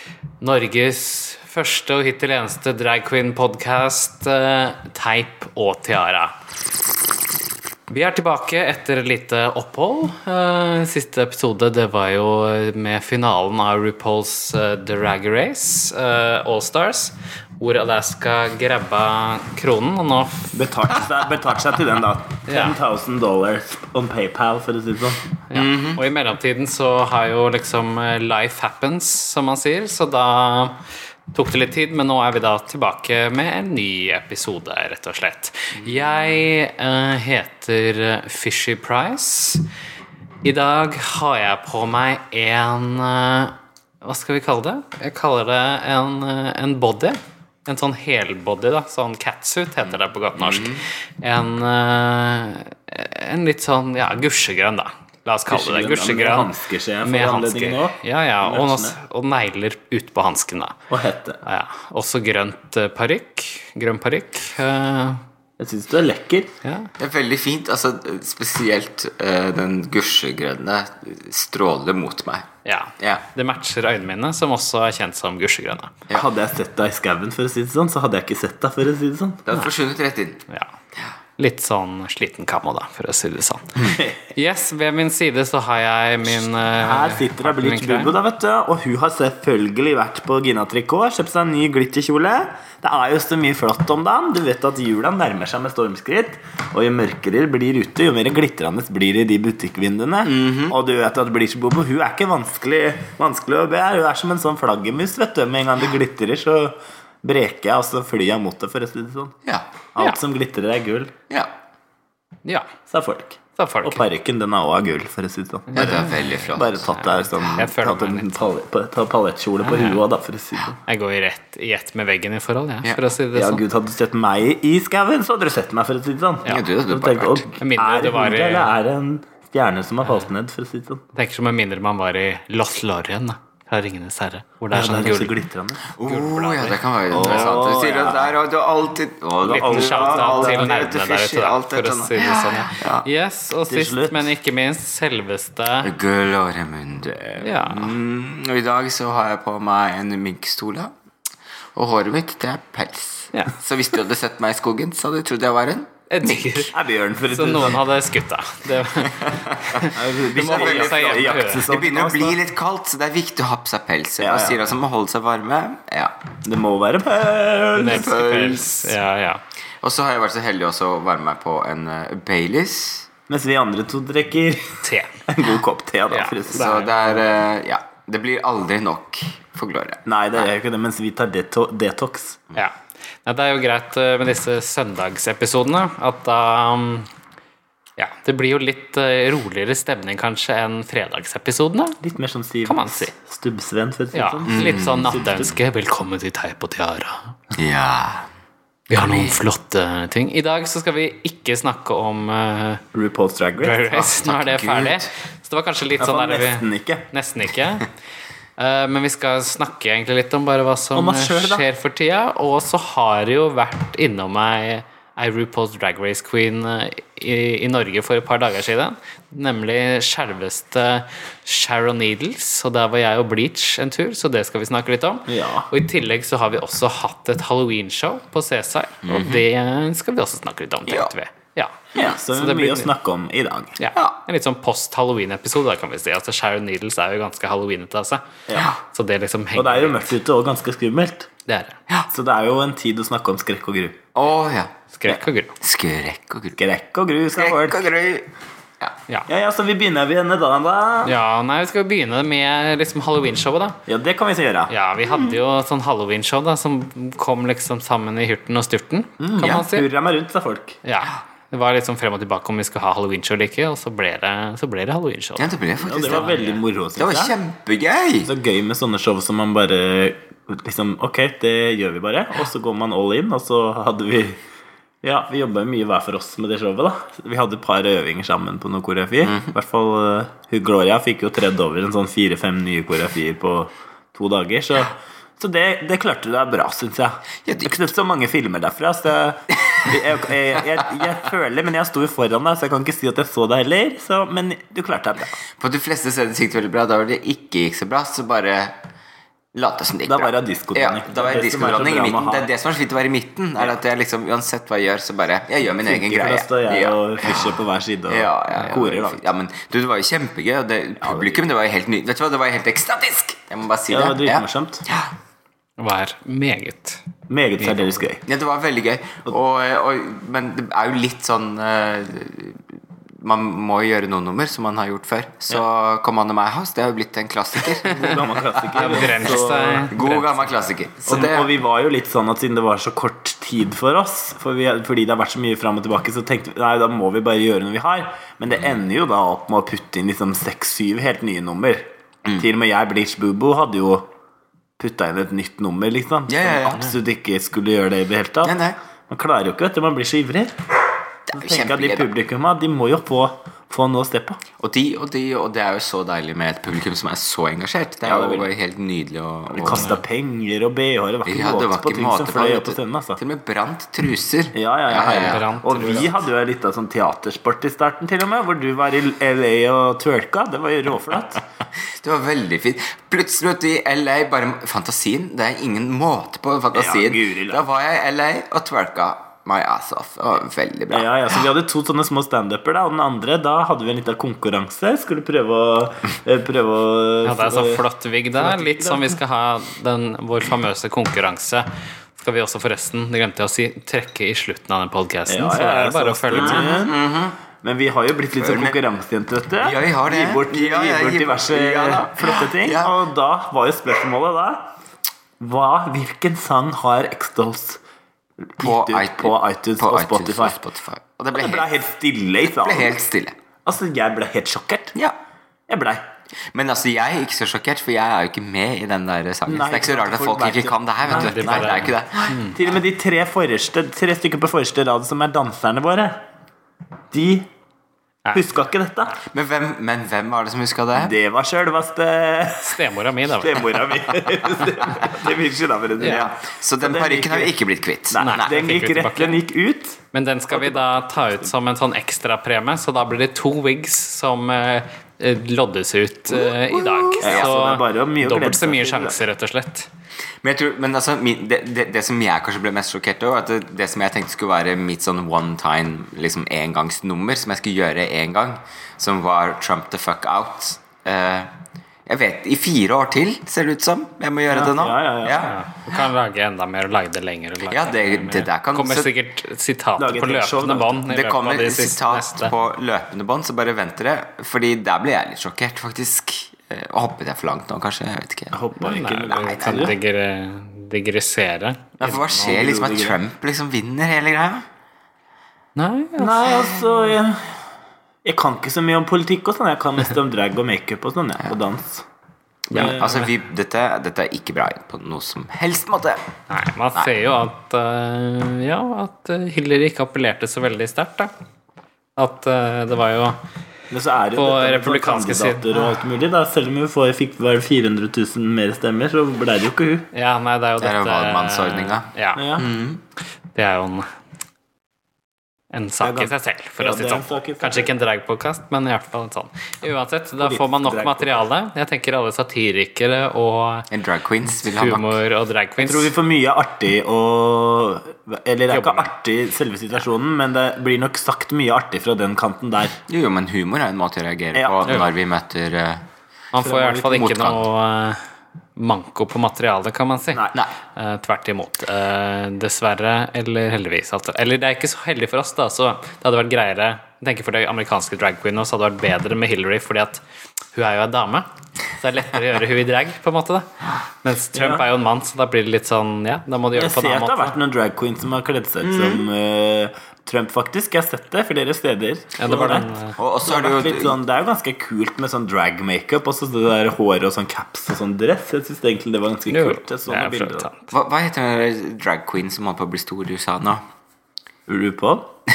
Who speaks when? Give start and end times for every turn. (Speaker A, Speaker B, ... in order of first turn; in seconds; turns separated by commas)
Speaker A: 0.4-6.3, Speaker A: 7.9-20.5, Speaker B: 20.5-25.2, Speaker A: 22.5-22.8, Speaker A: 25.5-39.6, Speaker C: 25.5-26.0, Speaker C: 36.1-36.4, Speaker A: 40.4-56.5, Speaker C: 50.4-50.8, Speaker B: 55.5-59.0, Speaker A: 57.0-60.8, Speaker B: 60.9-61.4, Speaker A: 61.4-65.2, Speaker B: 65.6-66.5, Speaker A: 66.6-66.9, Speaker C: 67.0-72.5, Speaker A: 72.6-75.9, Speaker B: 76.1-79.4, Speaker C: 79.5-80.4, Speaker A: 81.4-88.1, Speaker B: 83.9-84.2, Speaker B: 86.8-109.3, Speaker C: 100.2-100.8, Speaker B: 109.9-111.1, Speaker A: 112.4-112.7, Speaker B: 112.9-120.8, Speaker A: 113.5-114.0, Speaker A: 115.7-118.5, Speaker C: 115.7-116.8, Speaker A: 119.6-120.0, Speaker A: 120.8-123.6, Speaker B: 123.3-131.0, Speaker C: 126.5-127.5, Speaker A: 127.6-128.7, Speaker A: 131.1-135.3, Speaker B: 134.7-135.9, Speaker C: 135.9-143.1, Speaker A: 136.1-137.6, Speaker B: 137.1-138.4, Speaker B: 139.4-140.6, Speaker A: 139.5-145.9, Speaker B: 143.7-144.3, Speaker C: 145.8-150.9, Speaker A: 147.4-147.9, Speaker C: 151.7-156.5, Speaker A: 156.1-156.7, Speaker B: 156.7-157.8, Speaker A: 157.3-161.7, Speaker C: 159.0-166.1, Speaker B: 159.8-162.4, Speaker B: 164.2-164.6, Speaker B: 166.4-168.1, Speaker A: 167.7-169.4, Speaker C: 167.8-168.9, Speaker C: 169.8-173.1, Speaker B: 173.3-176.9, Speaker A: 174.8-175.1, Speaker A: 176.1-177.0, Speaker C: 176.5-180.4, Speaker B: 180.1-182.4, Speaker A: 183.2-187.1, Speaker A: 188.0-192.0, Speaker B: 192.0-195.5, Speaker A: 192.6-193.1, Speaker A: 194.1-197.3, Speaker C: 194.5-195.5, Speaker C: 197.5-198.3, Speaker A: 198.9-202.8, Speaker C: 199.0-199.3, Speaker B: 202.9-203.8, Speaker A: 203.6-207.9, Speaker C: 203.9-205.1, Speaker B: 206.0-207.1, Speaker A: 208.6-231.8, Speaker B: 210.9-211.7, Speaker B: 225.3-225.7, Speaker C: 229.1-229.4, Speaker B: 231.9-233.8, Speaker A: 232.3-232.9, Speaker A: 233.8-238.3, Speaker B: 238.5-238.7, Speaker A: 238.8-240.1, Speaker B: 239.5-241.3, Speaker A: 241.4-241.8, Speaker B: 242.1-244.0, Speaker C: 244.1-244.7, Speaker A: 244.9-245.6, Speaker C: 245.6-246.6, Speaker B: 246.6-247.8, Speaker C: 247.3-248.3, Speaker B: 249.3-251.2, Speaker A: 251.0-253.8, Speaker B: 253.9-254.7, Speaker A: 254.7-259.9, Speaker B: 259.2-260.8, Speaker C: 259.4-259.6, Speaker A: 260.8-266.6, Speaker C: 265.4-266.3, Speaker B: 265.8-267.3, Speaker C: 266.9-268.3, Speaker B: 268.2-274.4, Speaker B: 275.0-295.4, Speaker C: 279.2-279.5, Speaker C: 287.4-287.8, Speaker C: 295.6-298.8, Speaker C: 299.5-315.1, Speaker B: 300.1-302.5, Speaker B: 305.8-309.2, Speaker B: 311.0-311.4, Speaker B: 313.9-314.9, Speaker A: 315.8-317.0, Speaker B: 317.3-318.2, Speaker C: 318.3-328.2, Speaker B: 327.8-329.9, Speaker A: 328.7-330.5, Speaker C: 328.9-331.5, Speaker B: 331.1-344.1, Speaker B: 344.8-348.6, Speaker C: 346.3-346.9, Speaker C: 348.4-348.8, Speaker B: 349.1-350.6, Speaker C: 351.3-352.1, Speaker B: 351.3-354.4, Speaker C: 354.6-359.9, Speaker B: 358.0-358.5, Speaker B: 359.5-363.2, Speaker A: 359.7-360.0, Speaker C: 361.2-366.0, Speaker B: 364.5-371.4, Speaker A: 365.1-366.1, Speaker C: 371.9-381.1, Speaker B: 376.7-377.6, Speaker B: 380.9-387.8, Speaker A: 387.2-396.7, Speaker B: 388.3-389.2, Speaker B: 395.3-397.0, Speaker C: 396.3-397.4, Speaker B: 397.6-404.7, Speaker C: 398.4-398.8, Speaker C: 399.6-402.9, Speaker B: 405.4-407.8, Speaker B: 408.4-410.6, Speaker C: 408.6-411.7, Speaker B: 411.3-413.0, Speaker C: 412.5-413.4, Speaker B: 413.6-414.9, Speaker B: 415.7-416.0, Speaker C: 416.5-422.4, Speaker B: 419.5-426.2, Speaker A: 421.1-422.6, Speaker B: 427.1-427.5, Speaker B: 428.3-429.2, Speaker C: 429.3-431.2, Speaker B: 430.9-437.5, Speaker A: 432.6-433.8, Speaker A: 436.0-436.2, Speaker C: 436.0-438.6, Speaker B: 438.1-440.0, Speaker A: 438.2-439.4, Speaker A: 440.1-449.9, Speaker B: 440.5-441.0, Speaker C: 446.4-447.5, Speaker B: 447.2-449.2, Speaker C: 450.4-461.5, Speaker C: 462.1-466.1, Speaker B: 464.5-465.5, Speaker A: 465.4-472.5, Speaker C: 467.7-469.1, Speaker B: 470.0-471.0, Speaker C: 471.1-479.9, Speaker B: 478.5-479.9, Speaker A: 478.8-482.6, Speaker C: 482.0-484.6, Speaker B: 482.4-483.2, Speaker A: 485.8-486.9, Speaker B: 486.2-487.6, Speaker B: 488.2-492.1, Speaker C: 492.7-496.2, Speaker B: 492.7-493.2, Speaker A: 492.7-493.1, Speaker A: 496.5-501.3, Speaker C: 496.9-497.2, Speaker A: 502.2-503.4, Speaker B: 503.9-510.1, Speaker A: 504.3-505.8, Speaker A: 510.1-512.4, Speaker C: 510.8-513.0, Speaker B: 512.4-512.7, Speaker A: 513.5-514.1, Speaker A: 515.7-523.9, Speaker B: 516.0-517.9, Speaker B: 520.4-521.4, Speaker C: 523.9-525.2, Speaker A: 524.5-526.1, Speaker B: 525.8-533.0, Speaker A: 528.7-529.1, Speaker C: 533.1-536.0, Speaker B: 534.5-535.0, Speaker A: 536.5-538.2, Speaker B: 536.6-537.1, Speaker C: 537.0-537.6, Speaker A: 538.8-550.2, Speaker B: 540.3-540.6, Speaker A: 550.7-557.6, Speaker B: 554.5-554.8, Speaker B: 556.7-562.9, Speaker C: 558.8-559.2, Speaker A: 562.4-563.1, Speaker C: 563.2-564.1, Speaker B: 563.4-570.7, Speaker A: 569.5-570.9, Speaker C: 570.9-573.8, Speaker B: 574.7-575.3